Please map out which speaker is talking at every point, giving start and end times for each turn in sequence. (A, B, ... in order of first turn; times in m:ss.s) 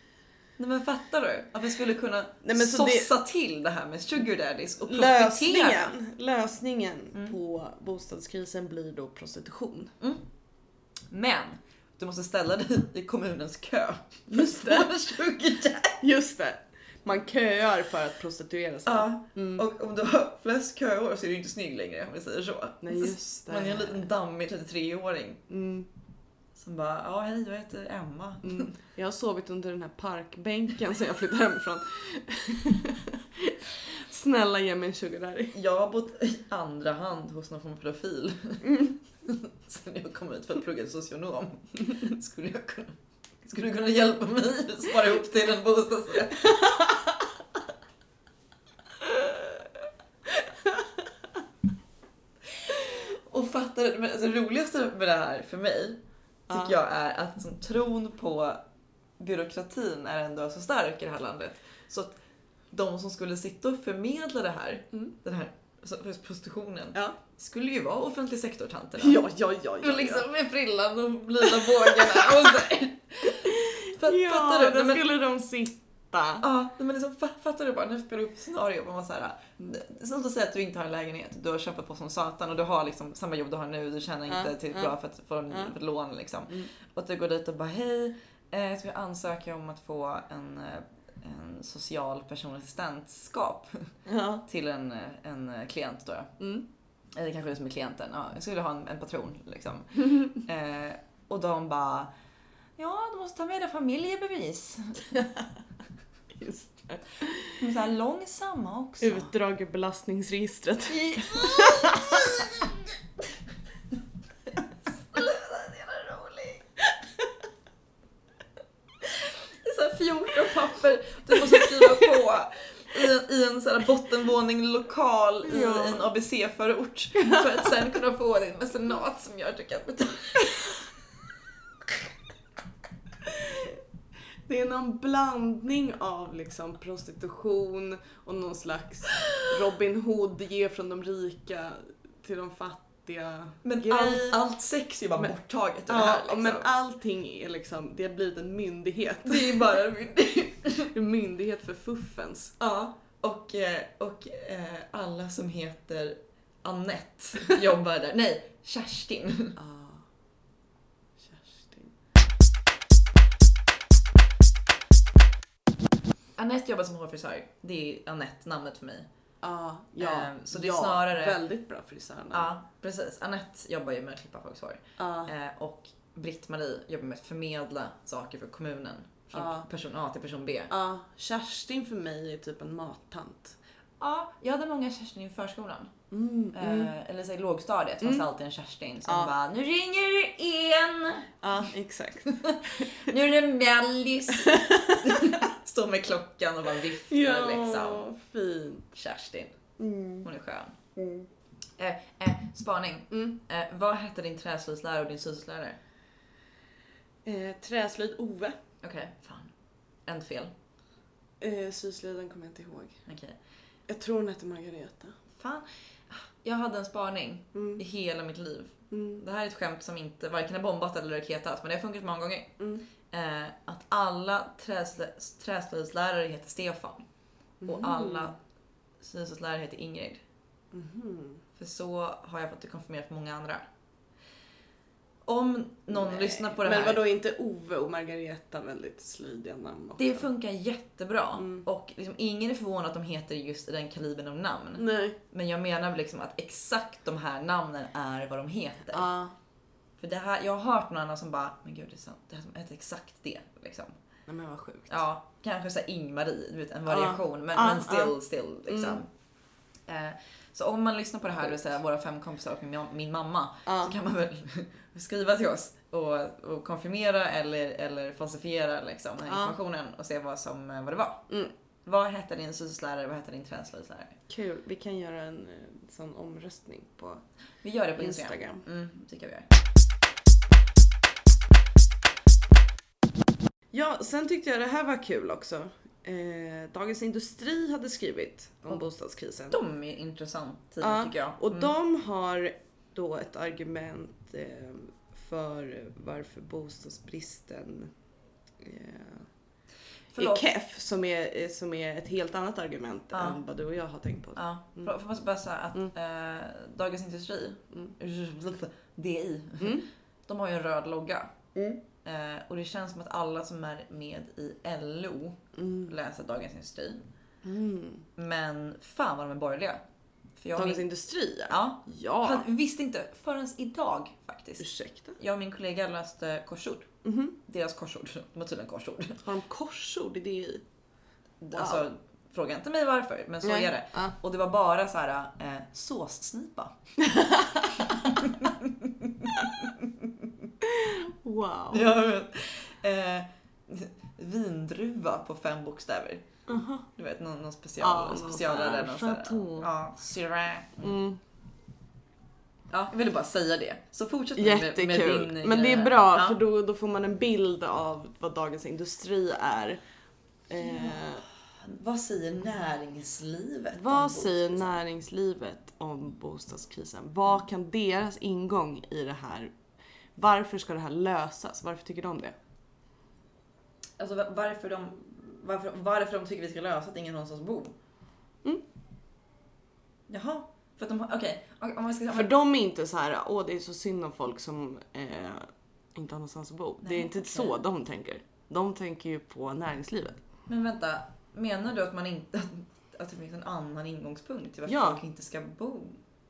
0:00.6-0:06.0 A
0:02.4-0:03.1 B
0:04.9-0:09.9 B
0:10.0-0:10.3 A
0:11.1-0:16.0 A
0:14.3-0:14.9 B
0:16.0-0:19.6 B
0:18.9-0:25.4 A
0:22.8-0:24.1 B
0:25.5-0:25.9 B
0:26.6-0:28.7 A
0:28.4-0:35.6 B
0:35.5-0:46.8 A
0:46.6-0:47.0 B
0:49.0-0:49.5 B
0:52.6-0:58.6 A
0:56.5-0:56.8 B
0:59.2-1:02.2 A
1:02.7-1:09.2 A
1:09.0-1:10.3 B
1:09.8-1:15.1 A
1:11.5-1:12.4 B
1:13.4-1:16.4 B
1:16.4-1:36.3 A
1:24.3-1:24.9 B
1:34.1-1:34.4 B
1:36.4-1:36.7 B
1:37.1-1:42.1 A
1:42.8-1:45.3 A
1:46.3-1:47.5 B
1:47.5-1:49.3 A
1:49.0-1:52.5 B
1:50.9-1:52.6 A
1:54.9-1:56.7 A
1:59.0-2:10.8 A
2:01.5-2:02.1 B
2:05.5-2:06.1 B
2:13.2-2:13.8 B
2:14.5-2:24.4 B
2:23.6-2:26.7 A
2:25.9-2:29.7 B
2:29.2-2:30.9 A
2:30.9-2:32.6 B
2:32.6-2:39.6 A
2:39.6-2:40.0 B
2:41.2-2:41.9 B
2:46.4-2:49.1 A
2:49.4-2:52.5 B
2:50.0-2:51.4 A
2:52.3-3:00.7 A
2:55.0-2:55.3 B
2:59.3-2:59.7 B
3:00.7-3:03.6 B
3:04.0-3:05.9 A
3:06.1-3:06.9 B
3:06.5-3:11.4 A
3:08.0-3:08.3 B
3:09.1-3:09.3 B
3:11.4-3:13.1 B
3:12.3-3:18.1 A
3:14.4-3:15.4 B
3:17.1-3:18.9 B
3:18.9-3:19.6 A
3:19.8-3:20.3 B
3:20.2-3:20.8 A
3:21.0-3:21.3 B
3:21.8-3:25.8 A
3:23.1-3:23.4 B
3:27.2-3:28.6 B
3:28.8-3:29.5 A
3:30.1-3:30.5 A
3:31.4-3:33.0 B
3:33.1-3:33.4 A
3:33.9-3:35.2 B
3:35.4-3:42.6 A
3:37.5-3:37.8 B
3:38.9-3:39.2 B
3:42.6-3:42.8 B
3:43.1-3:47.0 A
3:47.6-3:48.3 B
3:47.6-3:48.4 A
3:49.0-3:50.2 A
3:50.7-3:51.4 B
3:51.6-3:53.7 A
3:55.2-3:57.0 A
3:55.9-4:00.3 B
4:00.0-4:09.1 A
4:01.4-4:01.6 B
4:04.8-4:05.2 B
4:08.9-4:09.4 B
4:10.0-4:14.0 A
4:14.3-4:15.0 B
4:14.9-4:19.1 A
4:16.9-4:18.2 B
4:18.7-4:19.0 B
4:19.9-4:31.3 A
4:23.7-4:23.9 B
4:29.3-4:29.6 B
4:31.9-4:34.2 A
4:34.3-4:37.2 B
4:37.6-4:39.5 A
4:38.0-4:38.6 B
4:43.7-4:49.6 B
4:49.5-4:51.7 A
4:50.8-4:57.9 B
4:58.6-4:59.3 B
5:00.1-5:00.5 A
5:00.2-5:04.9 B
5:03.1-5:03.4 A
5:04.4-5:11.4 A
5:09.6-5:09.8 B
5:12.0-5:17.1 A
5:15.6-5:15.9 B
5:17.4-5:18.0 B
5:18.2-5:19.8 A
5:20.4-5:20.9 A
5:20.6-5:22.5 B
5:21.5-5:26.9 A
5:24.6-5:25.2 B
5:27.0-5:27.4 B
5:27.4-5:29.2 A
5:29.2-5:30.6 B
5:31.4-5:36.8 A
5:31.6-5:31.8 B
5:33.4-5:34.1 B
5:37.0-5:37.9 B
5:37.9-5:40.0 A
5:40.6-5:42.0 B
5:41.7-5:46.3 A
5:46.5-5:46.9 B
5:46.9-5:51.0 A
5:47.8-5:49.7 B
5:50.8-5:51.2 B
5:52.7-5:56.4 A
5:54.4-5:59.8 B
6:00.5-6:01.2 B
6:00.6-6:01.0 A
6:01.6-6:04.8 A
6:03.7-6:09.5 B
6:10.2-6:12.4 B
6:14.0-6:17.7 A
6:20.1-6:22.3 A
6:22.1-6:30.2 B
6:26.8-6:27.6 A
6:30.5-6:36.0 A
6:34.7-6:35.0 B